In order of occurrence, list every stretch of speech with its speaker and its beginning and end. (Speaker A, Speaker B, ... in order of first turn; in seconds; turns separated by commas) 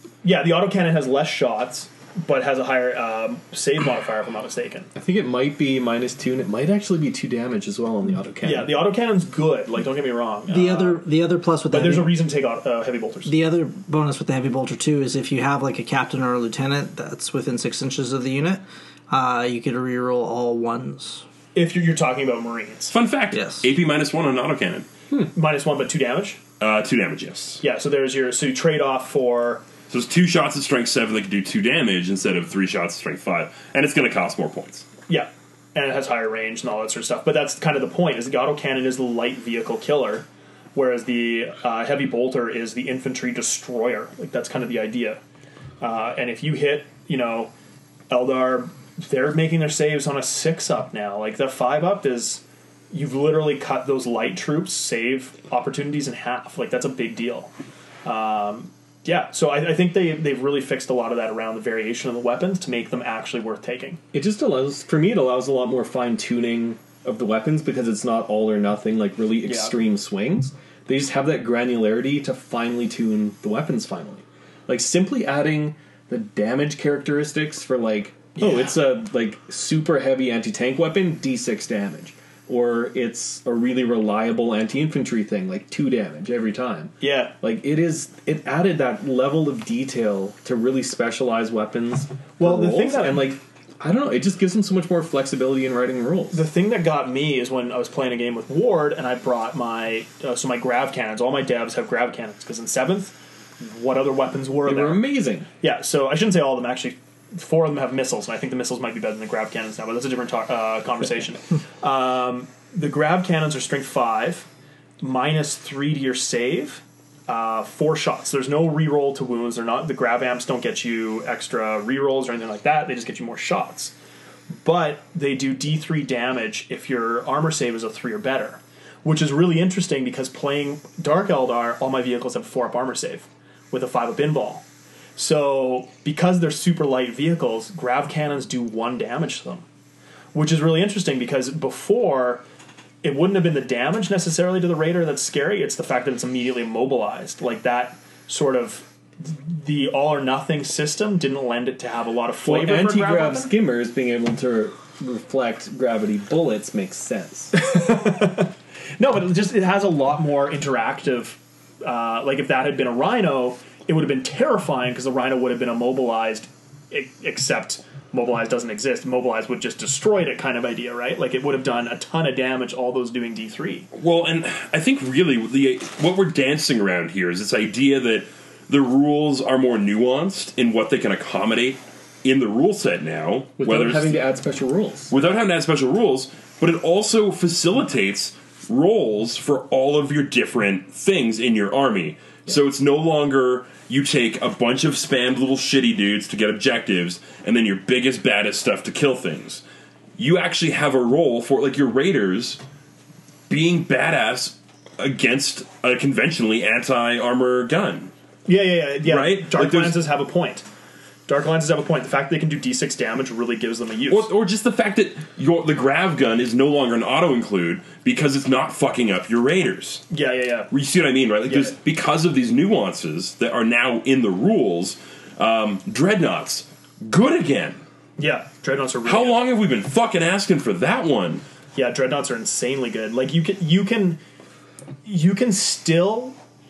Speaker A: 0.2-4.9, Speaker B: 4.9-8.8, Speaker A: 8.4-11.0, Speaker C: 10.5-12.2, Speaker A: 11.7-13.3, Speaker C: 13.3-21.2, Speaker A: 21.6-23.0, Speaker D: 22.9-24.9, Speaker C: 23.3-23.6, Speaker A: 25.3-26.4, Speaker D: 26.6-27.6, Speaker A: 27.6-29.7, Speaker D: 29.9-34.9, Speaker A: 35.1-45.2, Speaker A: 45.8-47.5, Speaker A: 48.1-57.5, Speaker A: 58.0-64.0, Speaker B: 64.1-96.5, Speaker A: 69.4-69.8, Speaker A: 78.4-78.8, Speaker A: 87.0-87.4, Speaker A: 92.4-93.3, Speaker A: 96.3-105.0, Speaker B: 104.6-105.5, Speaker A: 105.6-114.5, Speaker A: 115.0-124.0, Speaker A: 124.5-134.7, Speaker A: 135.2-139.7, Speaker A: 140.3-142.4, Speaker A: 143.0-153.5, Speaker B: 152.4-157.5, Speaker A: 157.5-173.9, Speaker D: 173.9-184.2, Speaker B: 183.6-185.1, Speaker D: 185.1-199.6, Speaker D: 200.2-202.6, Speaker D: 203.5-208.1, Speaker A: 208.5-210.7, Speaker D: 209.0-210.0, Speaker A: 211.3-214.3, Speaker D: 214.1-220.1, Speaker A: 220.1-220.7, Speaker D: 220.7-227.8, Speaker A: 221.5-221.7, Speaker A: 228.2-229.4, Speaker D: 229.1-231.4, Speaker A: 231.8-234.2, Speaker A: 235.1-236.4